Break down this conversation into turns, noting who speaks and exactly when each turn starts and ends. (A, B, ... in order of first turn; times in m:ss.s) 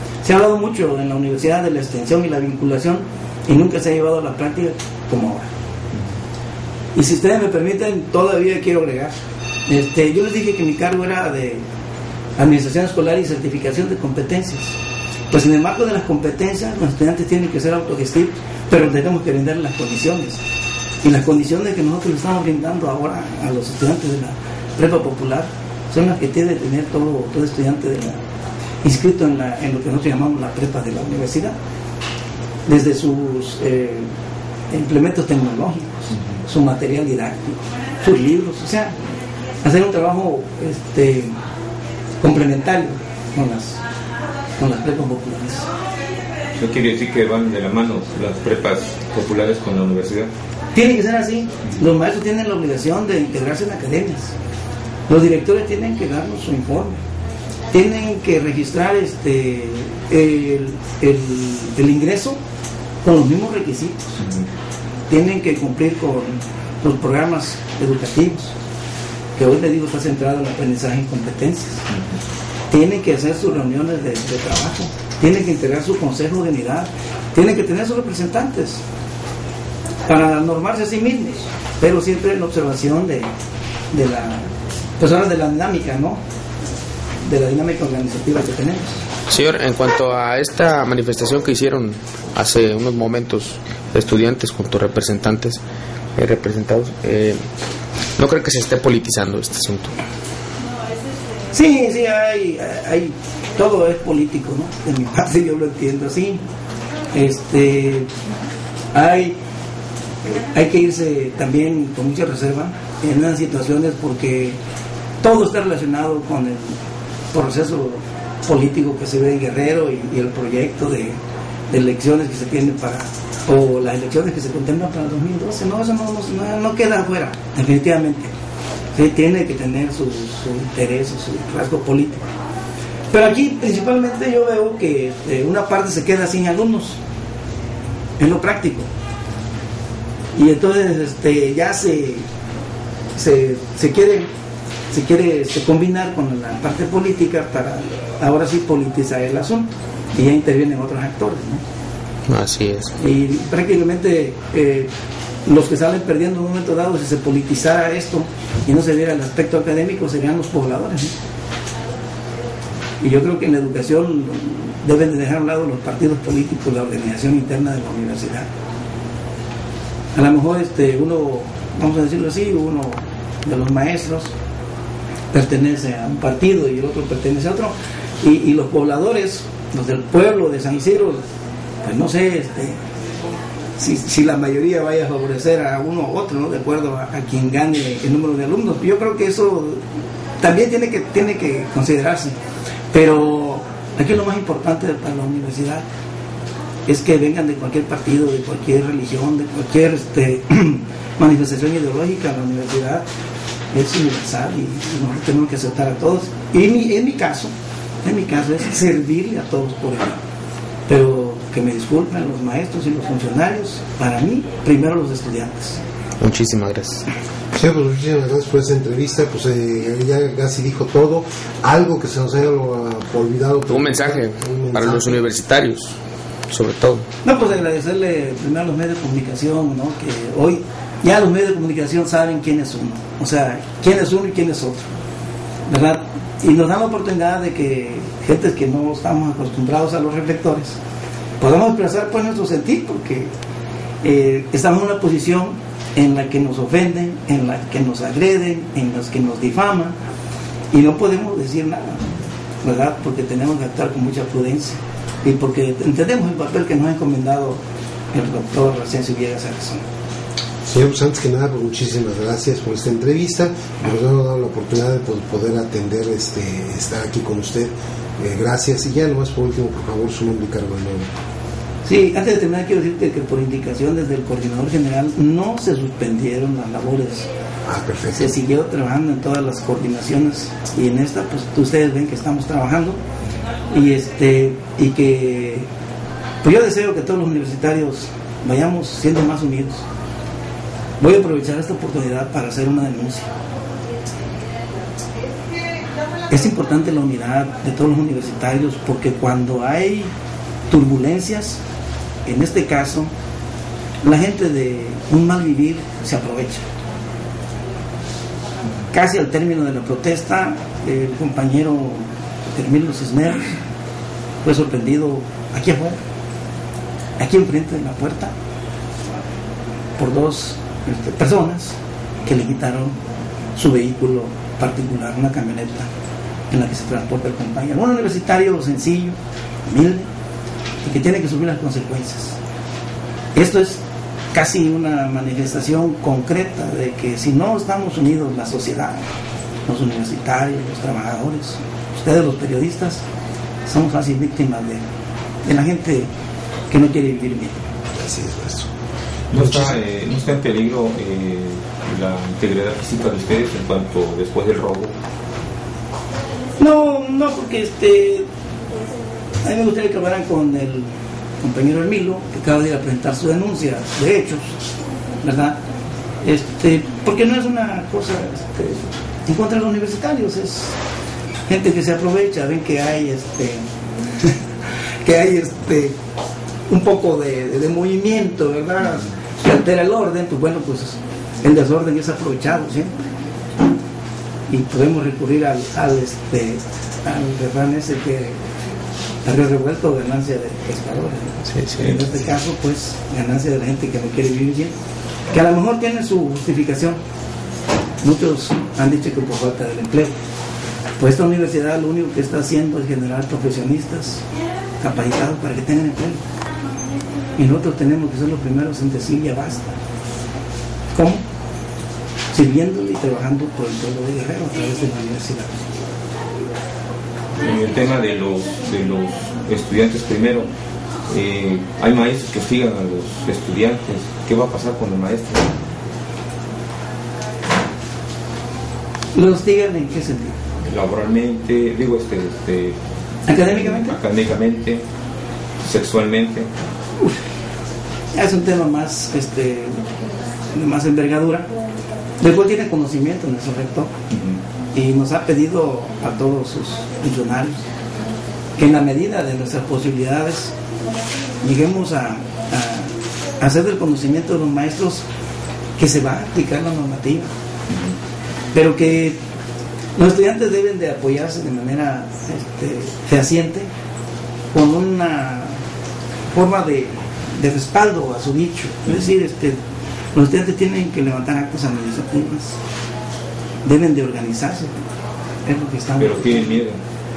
0:00.2-0:05.5 A
0:06.9-0:09.2 A
0:09.7-0:11.6 A
0:12.4-0:14.7 A
0:15.3-0:20.4 A
0:21.0-0:28.2 A
0:28.8-0:31.5 A
0:32.6-0:34.1 A
0:34.7-0:38.9 A
0:39.6-0:41.3 A
0:42.2-0:43.8 A
0:44.6-0:45.7 A
0:46.5-0:50.3 B
0:50.7-0:54.3 A
0:55.1-0:57.0 A
0:57.7-1:02.4 A
1:03.0-1:04.2 A
1:04.2-1:04.4 B
1:05.1-1:08.5 A
1:09.4-1:11.8 A
1:11.9-1:12.1 B
1:12.7-1:18.8 A
1:20.0-1:23.3 A
1:23.9-1:24.5 A
1:25.0-1:26.2 A
1:27.2-1:29.0 A
1:29.3-1:35.6 C
1:36.2-1:37.4 C
1:38.2-1:39.9 C
1:41.5-1:46.4 A
1:47.1-1:48.1 A
1:48.9-1:49.4 A
1:50.2-1:54.6 A
1:55.2-1:56.8 A
1:57.3-2:01.2 A
2:01.7-2:08.3 A
2:08.9-2:12.3 A
2:13.1-2:17.0 A
2:18.2-2:18.9 A
2:20.3-2:22.2 A
2:23.1-2:24.3 A
2:24.9-2:31.6 A
2:32.3-2:32.9 C
2:33.0-2:34.9 A
2:35.4-2:41.1 A
2:43.0-2:48.5 A
2:50.1-2:54.3 A
2:55.3-3:01.2 A
3:01.8-3:02.8 A
3:03.8-3:09.8 A
3:10.4-3:12.4 A
3:12.9-3:15.8 A
3:16.8-3:23.0 A
3:23.7-3:27.5 A
3:28.0-3:30.2 A
3:30.9-3:35.8 A
3:36.2-3:37.0 C
3:37.5-3:45.2 D
3:43.7-3:45.9 C
3:46.5-3:47.0 C
3:47.2-3:54.9 A
3:55.7-4:00.8 A
4:01.4-4:03.3 A
4:04.0-4:09.9 A
4:10.7-4:12.0 A
4:12.6-4:17.6 A
4:18.1-4:19.8 A
4:20.7-4:31.1 D
4:31.8-4:37.3 A
4:37.6-4:38.4 D
4:38.1-4:43.0 A
4:43.7-4:45.7 A
4:46.4-4:49.8 A
4:51.0-4:53.3 A
4:56.3-5:00.1 A
5:00.7-5:01.6 A
5:02.2-5:03.1 A
5:04.0-5:06.6 A
5:08.9-5:13.5 A
5:14.4-5:16.0 A
5:17.2-5:18.3 A
5:20.0-5:22.9 A
5:23.6-5:25.9 A
5:26.5-5:30.1 A
5:30.8-5:32.4 A
5:33.3-5:33.8 A
5:34.3-5:39.0 A
5:39.6-5:43.0 A
5:43.7-5:44.8 A
5:45.4-5:46.1 A
5:46.7-5:47.5 A
5:47.9-5:48.7 D
5:49.3-5:54.9 B
5:49.4-5:49.8 D
5:56.6-5:58.2 A
5:59.4-6:00.9 A
6:01.4-6:04.4 A
6:05.2-6:05.6 A
6:06.2-6:10.8 A
6:11.5-6:13.6 A
6:15.0-6:16.0 A
6:16.7-6:22.9 A
6:24.5-6:28.4 A
6:29.2-6:34.7 A
6:31.5-6:31.8 C
6:35.3-6:37.0 A
6:38.0-6:40.1 A
6:41.0-6:44.2 A
6:44.8-6:46.2 A
6:47.4-6:49.8 A
6:50.9-6:51.2 A
6:52.3-6:55.7 A
6:57.4-7:00.5 B
7:01.1-7:05.5 B
7:09.1-7:10.4 A
7:10.6-7:12.8 B
7:13.3-7:14.0 A
7:13.3-7:14.8 B
7:15.6-7:16.5 B
7:18.1-7:19.8 A
7:20.5-7:21.5 A
7:22.2-7:23.9 A
7:24.1-7:24.4 B
7:24.7-7:27.7 A
7:28.6-7:30.5 A
7:31.4-7:35.0 A
7:35.8-7:37.3 A
7:37.7-7:37.9 B
7:38.5-7:39.2 A
7:39.9-7:43.7 A
7:44.5-7:45.6 A
7:46.3-7:49.6 A
7:50.1-7:52.6 A
7:53.6-7:54.7 A
7:55.4-7:56.6 A
7:56.0-7:56.8 B